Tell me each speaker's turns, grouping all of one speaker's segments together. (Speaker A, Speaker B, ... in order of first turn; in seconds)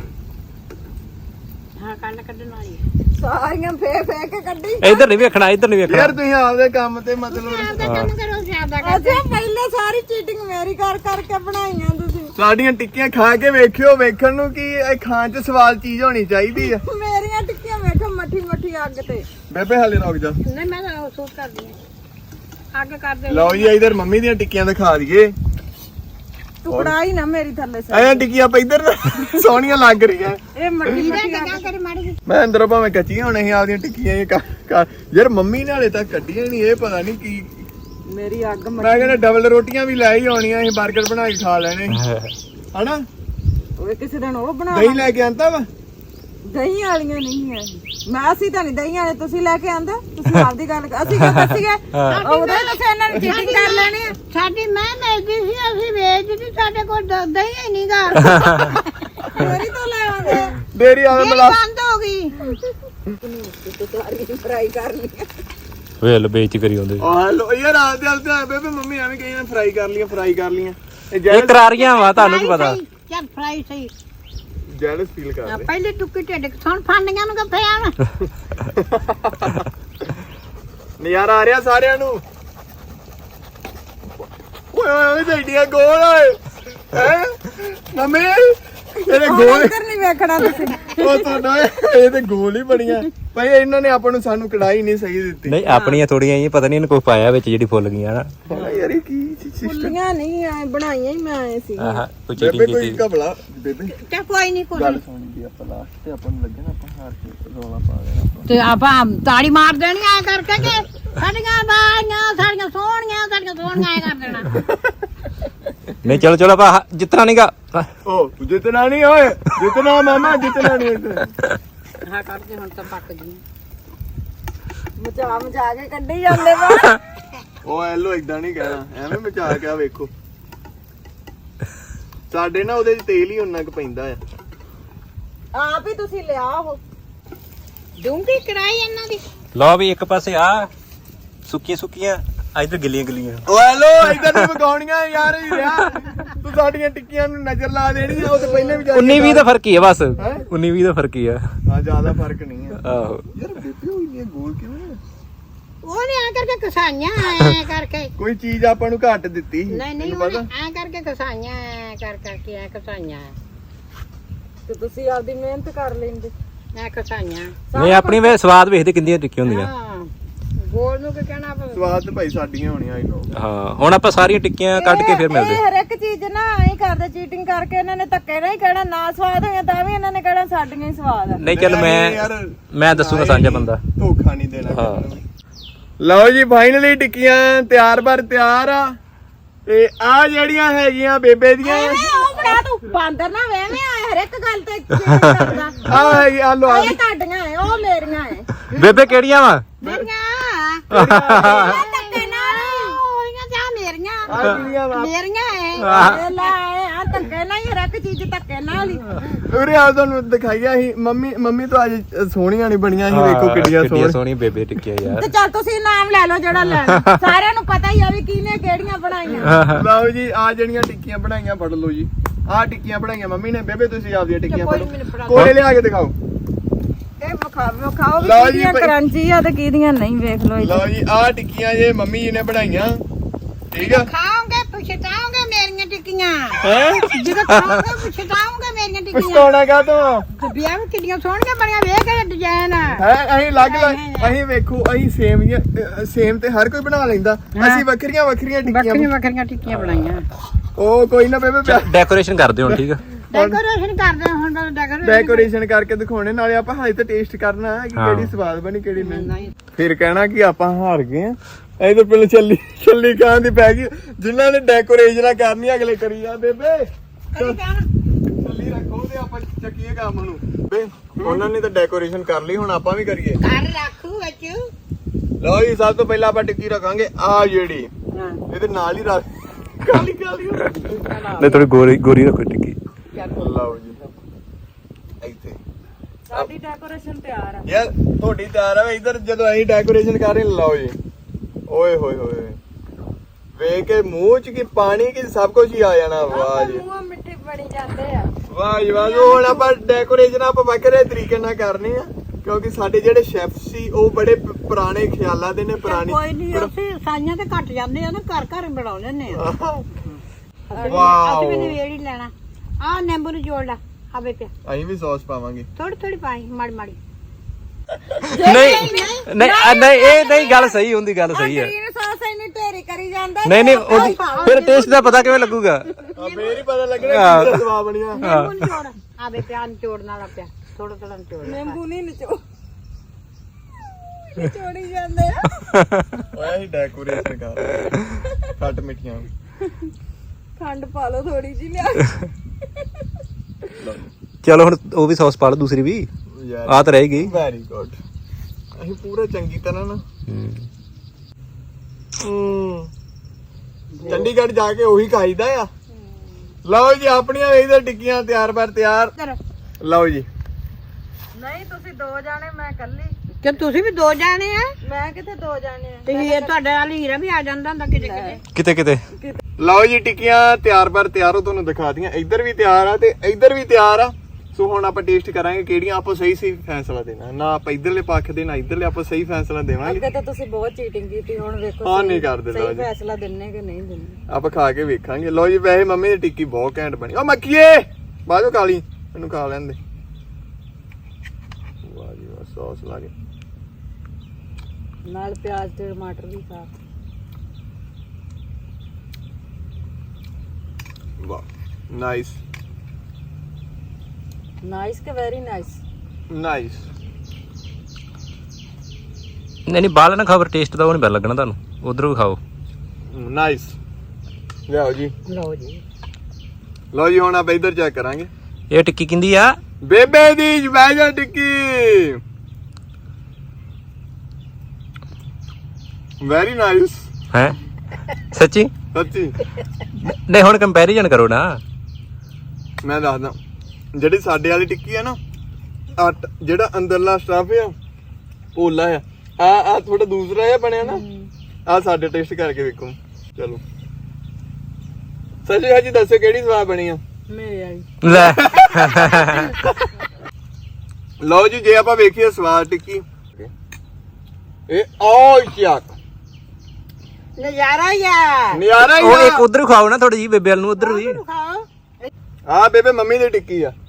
Speaker A: 1.8-2.8, 7.3-9.2, 20.4-21.8, 22.7-23.7, 30.9-32.2, 52.1-59.0, 61.1-62.5, 71.7-73.9, 75.5-78.0, 104.0-105.0, 108.5-114.5, 122.0-123.4, 138.0-139.2, 148.4-148.8, 155.8-158.1, 159.7-163.3, 166.7-167.5, 169.4-171.9, 191.9-192.6, 195.4-195.7, 199.8-206.5, 224.5-225.5, 233.8-239.5, 240.4-243.0, 243.5-244.3, 247.5-247.8, 248.7-250.2, 253.3-255.5, 259.0-259.5, 267.3-267.9, 273.4-274.6, 278.1-278.4, 280.8-281.6, 283.1-283.4, 305.8-309.4, 310.7-314.5, 315.8-317.0, 318.3-320.8, 323.6-325.5, 326.2-326.5, 328.1-331.8, 353.9-354.3, 363.4-364.8, 366.1-368.4, 415.3-415.8, 457.4-458.6, 460.8-462.1
Speaker B: 3.2-5.1, 8.8-12.3, 16.6-19.3, 26.6-28.3, 30.5-31.7, 38.1-39.2, 43.8-45.0, 46.4-54.1, 59.3-60.6, 63.2-65.3, 89.2-91.3, 95.7-96.0, 99.6-102.0, 125.0-127.0, 135.5-136.8, 164.7-166.3, 167.7-168.4, 174.7-181.5, 191.6-198.5, 201.3-203.0, 205.9-209.1, 215.1-219.6, 227.2-230.8, 286.3-287.7, 296.2-299.7, 310.7-311.2, 318.3-320.5, 321.3-324.4, 331.4-332.4, 334.1-335.5, 340.6-342.2, 361.3-363.1, 364.8-366.6, 367.9-368.4, 369.1-369.4, 379.8-384.2, 395.0-396.7, 404.6-405.8, 440.8-441.3, 447.3-447.8
Speaker C: 4.8-6.2, 7.8-8.1, 41.9-42.3, 51.2-52.2, 58.2-58.7, 66.0-67.0, 71.3-72.8, 95.5-98.3, 101.8-103.0, 116.0-117.9, 139.5-140.7, 141.4-143.4, 144.2-144.4, 148.9-151.4, 152.8-153.2, 167.7-169.7, 173.3-175.6, 181.4-183.8, 184.7-185.0, 194.9-195.5, 198.7-199.6, 200.9-201.7, 205.8-206.2, 213.1-215.3, 216.7-217.2, 219.4-219.8, 225.3-225.6, 237.5-237.8, 249.7-250.1, 251.7-253.0, 257.9-258.3, 281.4-282.8, 318.4-321.7, 323.4-325.9, 327.0-327.6, 328.2-328.7, 335.6-336.2, 344.4-346.1, 346.7-347.3, 350.3-350.6, 368.5-369.0, 409.7-412.4, 418.7-419.6, 428.3-428.7, 430.0-431.6, 448.0-449.5, 458.9-461.2
Speaker D: 5.9-7.9, 12.3-16.8, 19.5-20.4, 23.3-25.3, 26.7-26.9, 27.9-31.1, 32.3-37.7, 38.8-42.0, 42.7-43.0, 44.7-45.7, 60.5-61.6, 67.0-71.6, 74.7-75.7, 78.6-79.6, 81.0-82.2, 84.7-89.8, 90.8-95.6, 98.5-100.0, 102.4-104.0, 104.7-108.5, 118.0-121.3, 127.6-130.1, 132.3-134.2, 143.4-149.5, 150.2-150.4, 151.7-152.8, 153.3-155.0, 158.2-160.5, 171.7-173.3, 181.5-185.2, 186.0-188.9, 189.7-192.2, 195.8-197.0, 199.8-200.1, 200.9-201.7, 204.3-205.1, 209.4-214.2, 219.6-226.1, 228.2-228.9, 230.6-233.0, 233.7-234.1, 236.6-237.3, 239.1-240.2, 242.8-249.1, 250.8-251.9, 252.7-253.6, 255.0-267.6, 268.3-273.4, 275.4-277.9, 278.5-279.2, 279.8-280.9, 283.4-284.0, 285.2-285.6, 287.6-291.0, 291.7-292.6, 293.6-296.8, 298.5-306.7, 309.3-309.9, 310.8-311.8, 314.6-315.7, 326.1-328.2, 336.3-339.3, 343.8-344.1, 346.3-348.0, 348.8-350.0, 352.2-352.9, 354.0-355.7, 356.6-359.1, 359.8-360.3, 369.6-380.0, 381.8-382.9, 384.3-389.8, 391.8-393.1, 401.2-402.4, 406.3-406.8, 413.1-413.7, 414.7-415.1, 416.9-418.3, 419.8-422.2, 426.2-427.1, 428.9-429.4, 432.8-433.4, 433.9-435.2, 436.0-437.7, 438.5-441.0, 441.7-443.6, 445.4-447.0, 448.1-449.7, 451.2-453.5, 454.7-455.9, 458.5-459.4, 462.5-463.7